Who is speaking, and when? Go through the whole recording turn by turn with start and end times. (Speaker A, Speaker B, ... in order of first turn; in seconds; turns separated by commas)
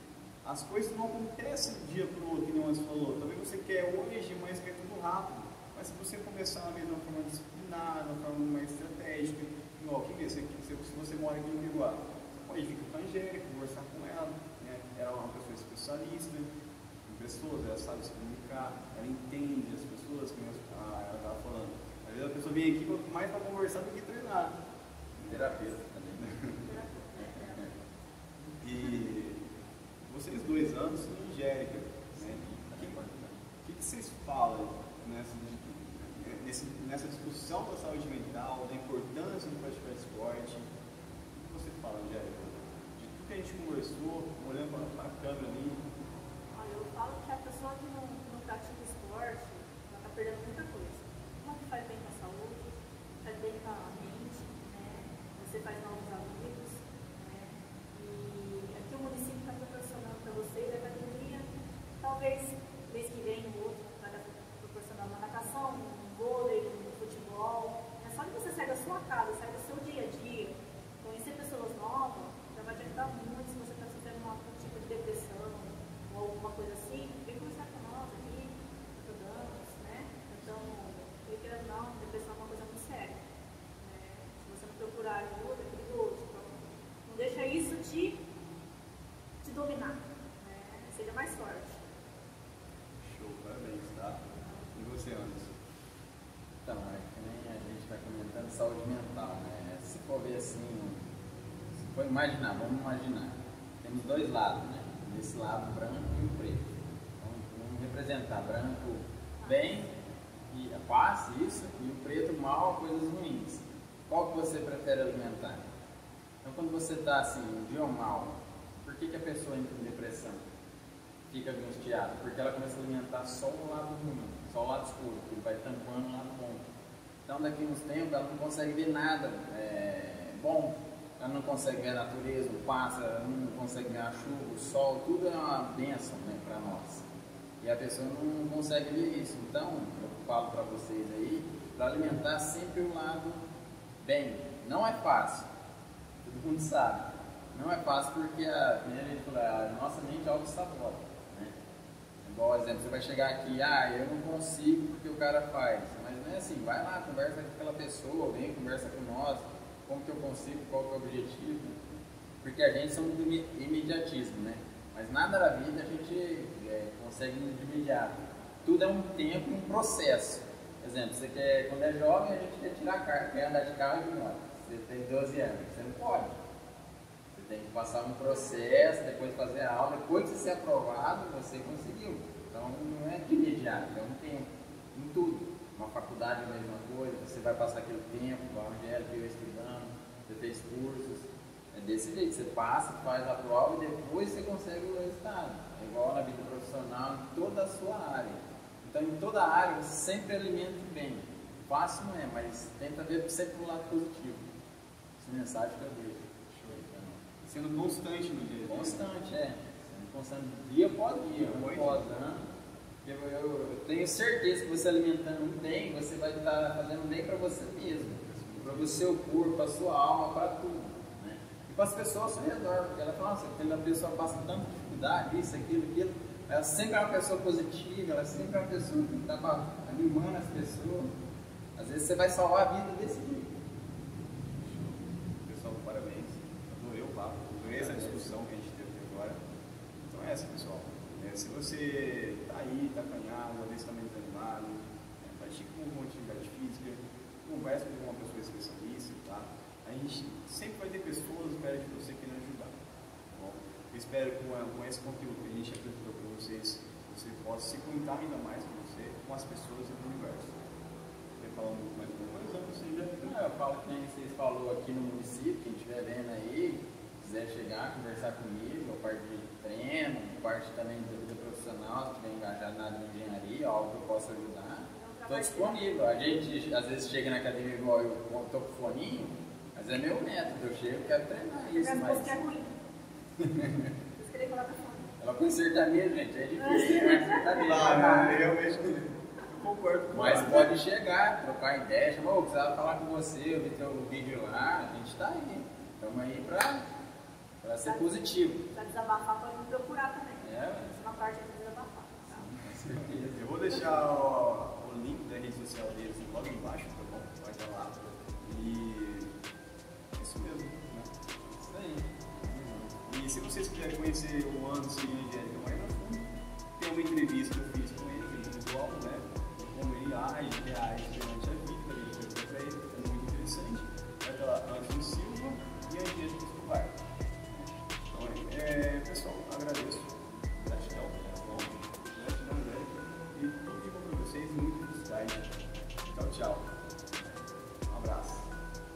Speaker A: 0.4-16.5, Speaker A: 17.1-24.6, Speaker A: 25.2-25.6, Speaker B: 25.3-26.4, Speaker A: 26.2-26.6, Speaker C: 26.6-27.8, Speaker B: 27.2-27.7, Speaker A: 28.6-29.4, Speaker A: 30.1-33.0, Speaker B: 32.1-33.4, Speaker A: 33.6-40.7, Speaker A: 41.3-45.9, Speaker C: 46.5-52.7, Speaker C: 53.2-61.5, Speaker C: 62.0-83.2, Speaker C: 83.8-88.2, Speaker C: 89.4-91.8, Speaker A: 93.0-95.5, Speaker B: 96.7-101.0, Speaker B: 101.8-109.9, Speaker C: 109.4-109.9, Speaker B: 110.5-115.7, Speaker B: 116.4-120.4, Speaker B: 121.3-126.6, Speaker B: 127.3-137.0, Speaker B: 137.6-143.4, Speaker B: 144.0-145.5, Speaker B: 146.2-151.6, Speaker B: 152.2-161.8, Speaker B: 162.4-176.3, Speaker B: 177.3-204.5, Speaker B: 205.2-207.2, Speaker A: 207.4-209.0, Speaker B: 208.7-212.5, Speaker A: 211.4-212.1, Speaker B: 213.0-231.1, Speaker A: 218.2-218.9, Speaker B: 231.8-233.5, Speaker A: 234.6-239.4, Speaker B: 237.7-238.3, Speaker A: 240.1-252.7, Speaker A: 253.3-260.5, Speaker A: 261.4-263.4, Speaker B: 263.2-282.4, Speaker C: 274.9-275.9, Speaker C: 281.8-282.7, Speaker C: 284.2-285.1, Speaker B: 285.2-288.5, Speaker C: 286.6-288.0, Speaker A: 287.5-290.7, Speaker B: 290.1-296.9, Speaker B: 297.6-298.6, Speaker C: 297.9-298.1, Speaker C: 298.6-302.5, Speaker B: 300.4-301.0, Speaker B: 302.3-304.2, Speaker A: 302.9-309.3, Speaker A: 310.2-311.1, Speaker B: 311.5-312.9, Speaker A: 312.4-335.5, Speaker A: 336.1-337.2, Speaker A: 337.9-338.5